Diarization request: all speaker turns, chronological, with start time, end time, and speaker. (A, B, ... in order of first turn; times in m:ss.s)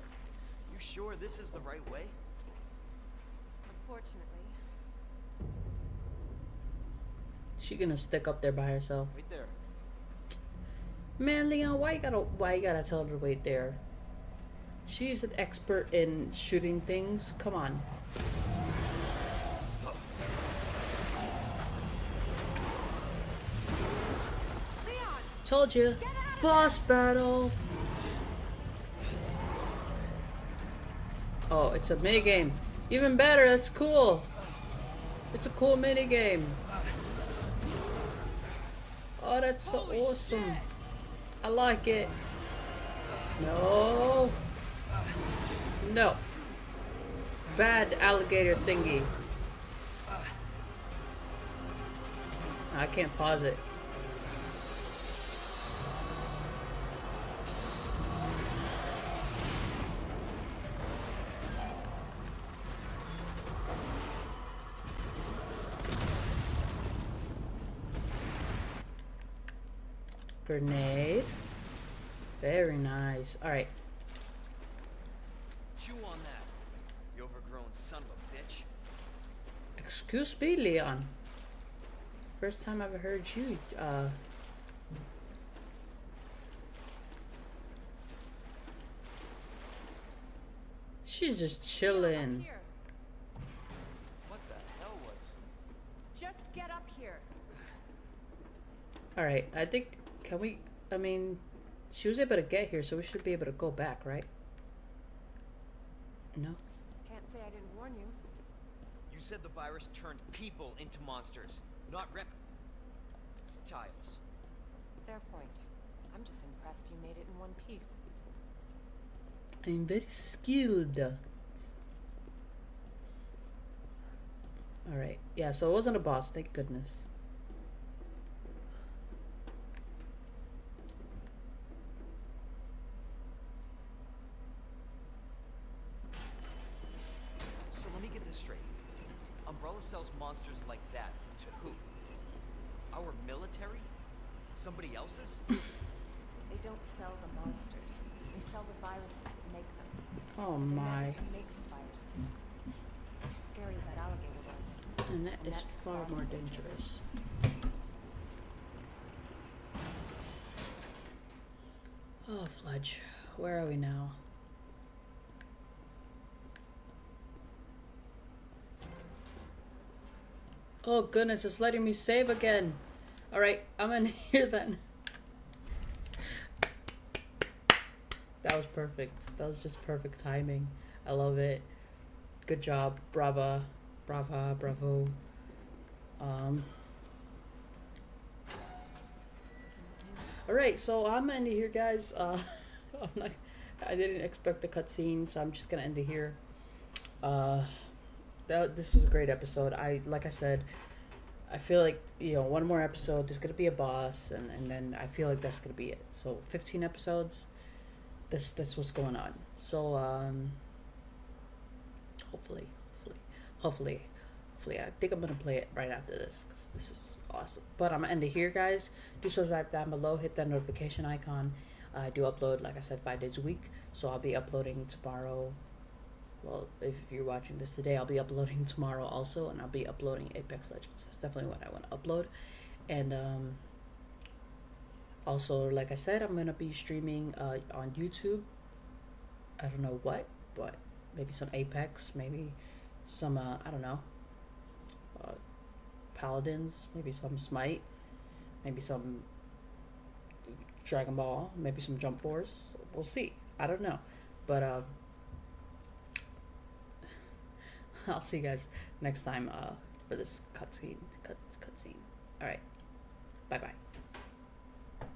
0:00.7-0:02.2 A
0:03.6-0:04.6 B
0:07.6-0:09.2 C
0:09.1-0:09.6 A
0:11.2-0:13.8 C
0:14.9-0:17.9 C
0:19.8-0:20.1 A
0:21.0-0:22.1 A
0:24.8-0:25.4 B
0:25.4-0:27.6 C
0:26.0-0:26.8 B
0:31.5-0:34.3 C
0:35.3-0:36.6 C
0:39.2-0:40.7 C
0:39.6-0:40.7 A
0:41.4-0:42.2 C
0:43.4-0:44.4 C
0:45.8-0:46.2 C
0:47.5-0:49.1 C
0:52.7-0:53.6 C
1:10.4-1:11.4 C
1:12.4-1:13.8 C
1:15.8-1:16.5 A
1:17.1-1:18.7 A
1:19.8-1:21.2 C
1:22.3-1:24.2 C
1:31.0-1:32.5 C
1:31.7-1:32.7 B
1:34.2-1:35.4 A
1:36.1-1:37.3 B
1:39.2-1:44.3 C
1:46.4-1:46.6 C
1:47.0-1:48.2 B
1:49.1-1:52.4 A
1:53.6-1:54.2 A
1:55.0-1:58.0 B
1:59.6-2:01.2 C
2:04.9-2:07.1 C
2:17.7-2:18.8 A
2:19.5-2:21.9 A
2:22.9-2:23.9 A
2:24.6-2:25.5 A
2:26.5-2:30.1 B
2:30.4-2:31.2 C
2:30.6-2:32.4 B
2:33.3-2:34.8 B
2:35.0-2:37.0 C
2:35.4-2:36.9 B
2:42.2-2:44.2 C
2:50.8-2:54.8 C
2:58.4-3:01.7 C
3:02.5-3:05.2 C
3:06.2-3:06.7 C
3:09.6-3:10.3 B
3:10.3-3:16.4 C
3:17.2-3:17.8 C
3:18.5-3:20.7 C
3:21.5-3:27.5 C
3:28.3-3:30.6 C
3:32.3-3:45.6 C
3:46.4-3:52.3 C
3:52.9-3:53.6 C
3:55.3-3:58.5 C
3:59.6-4:04.1 C
4:05.1-4:05.4 C
4:06.1-4:07.9 C
4:08.6-4:09.3 C
4:10.5-4:15.0 C
4:18.0-4:22.6 C
4:23.5-4:23.8 C